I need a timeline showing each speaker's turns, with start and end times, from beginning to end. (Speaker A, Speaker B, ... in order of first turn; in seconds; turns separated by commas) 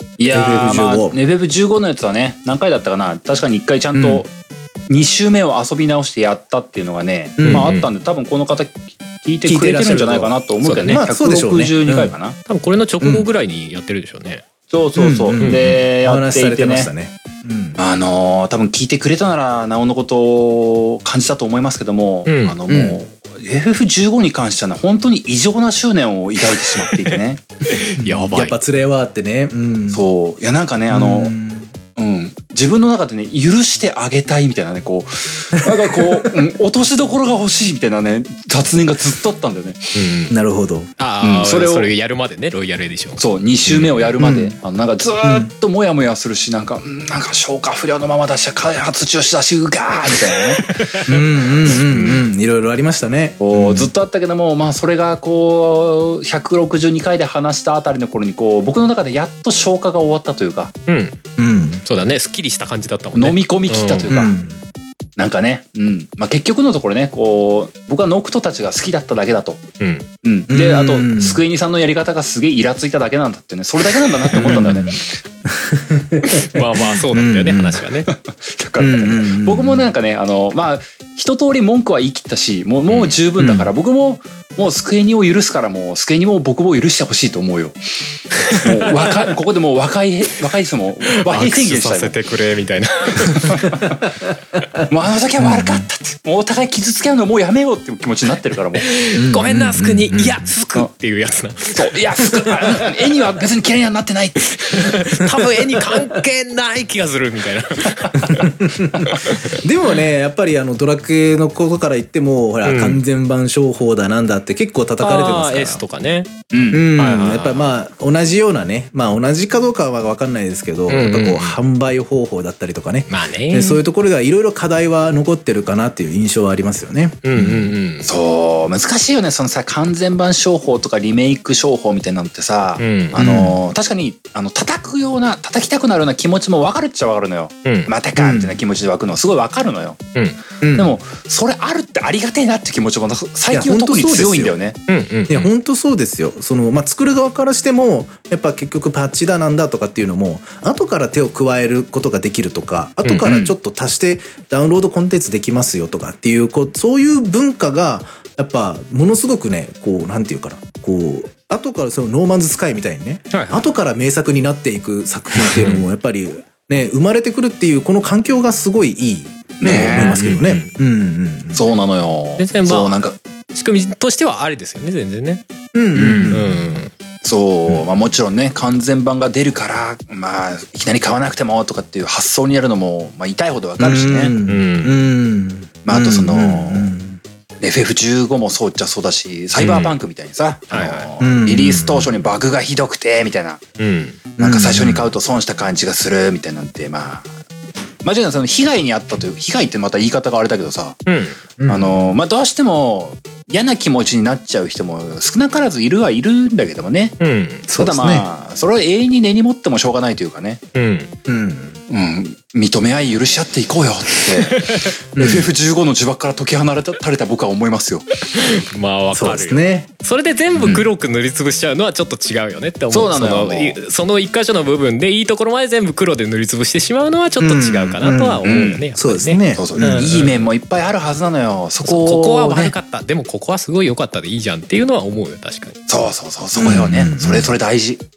Speaker A: 0.2-4.3, Speaker B: 0.3-1.2, Speaker B: 3.9-4.2, Speaker A: 4.9-12.4, Speaker B: 7.4-7.7, Speaker C: 7.4-7.9, Speaker B: 9.4-12.1, Speaker C: 10.6-11.0, Speaker C: 12.5-14.4, Speaker B: 13.0-13.3, Speaker A: 14.7-16.9, Speaker B: 14.9-17.8, Speaker C: 15.3-15.7, Speaker A: 17.8-27.4, Speaker C: 22.2-22.6, Speaker B: 22.7-23.0, Speaker C: 27.7-28.5, Speaker B: 28.0-30.0, Speaker A: 29.9-31.3, Speaker B: 30.9-31.7, Speaker A: 31.9-40.0, Speaker B: 35.6-36.3, Speaker C: 39.9-40.4, Speaker B: 40.3-40.9, Speaker C: 41.0-44.1, Speaker A: 41.2-41.9, Speaker A: 43.2-50.9, Speaker B: 44.2-44.5, Speaker B: 45.2-45.5, Speaker C: 50.7-52.2, Speaker B: 51.1-53.9, Speaker A: 53.4-60.7, Speaker C: 60.9-61.2, Speaker B: 61.4-61.8, Speaker C: 61.8-64.2, Speaker A: 63.1-64.3, Speaker B: 64.1-64.6, Speaker A: 65.2-69.6, Speaker C: 69.8-70.1, Speaker A: 70.2-75.2, Speaker B: 70.5-71.4, Speaker B: 74.3-74.9, Speaker B: 75.4-77.8, Speaker C: 76.3-78.1, Speaker A: 78.1-87.8, Speaker B: 78.8-79.8, Speaker C: 82.9-83.2, Speaker B: 83.4-83.7, Speaker A: 88.5-92.1, Speaker C: 91.2-93.8, Speaker A: 93.2-94.0, Speaker A: 94.9-98.8, Speaker B: 95.4-95.8, Speaker C: 98.8-102.9, Speaker B: 99.1-100.5, Speaker A: 101.7-104.9, Speaker C: 104.7-109.6, Speaker B: 105.2-106.2, Speaker B: 108.1-115.8, Speaker C: 112.6-113.0, Speaker C: 115.0-116.3, Speaker A: 116.5-116.9, Speaker B: 116.7-127.7, Speaker C: 117.0-117.7, Speaker C: 120.9-121.6, Speaker C: 123.1-123.8, Speaker C: 127.2-128.1, Speaker A: 128.0-140.0, Speaker C: 132.8-133.2, Speaker B: 133.1-133.6, Speaker C: 137.6-137.9, Speaker B: 138.2-138.6, Speaker B: 140.6-140.9, Speaker A: 140.7-144.8, Speaker B: 143.5-144.6, Speaker C: 144.9-145.5, Speaker B: 145.3-171.6, Speaker C: 153.0-153.5, Speaker A: 163.3-163.6, Speaker C: 165.3-165.8, Speaker A: 169.6-170.2, Speaker C: 169.7-170.7, Speaker A: 171.5-173.2, Speaker C: 172.4-175.4, Speaker B: 175.7-176.6, Speaker C: 175.9-176.9, Speaker A: 177.2-184.3, Speaker B: 183.8-187.2, Speaker C: 184.4-185.1, Speaker A: 185.8-186.9, Speaker A: 187.6-193.6, Speaker C: 189.6-190.0, Speaker C: 190.7-191.1, Speaker B: 191.2-192.1, Speaker C: 193.8-194.2, Speaker B: 194.4-195.1, Speaker A: 194.4-197.3, Speaker A: 198.0-201.0, Speaker C: 201.1-201.4, Speaker B: 201.6-202.1, Speaker A: 201.7-207.2, Speaker C: 207.2-207.7, Speaker B: 207.7-208.3, Speaker A: 207.7-210.6, Speaker C: 210.7-211.1, Speaker B: 211.2-211.8, Speaker A: 211.9-218.1, Speaker C: 214.5-214.9, Speaker B: 215.2-215.5, Speaker C: 218.3-230.3, Speaker B: 219.1-219.9, Speaker B: 220.5-220.8, Speaker A: 222.9-223.8, Speaker B: 227.4-230.2, Speaker A: 228.4-228.8, Speaker A: 229.5-232.7, Speaker C: 231.8-235.8, Speaker A: 235.9-238.0, Speaker B: 236.6-237.6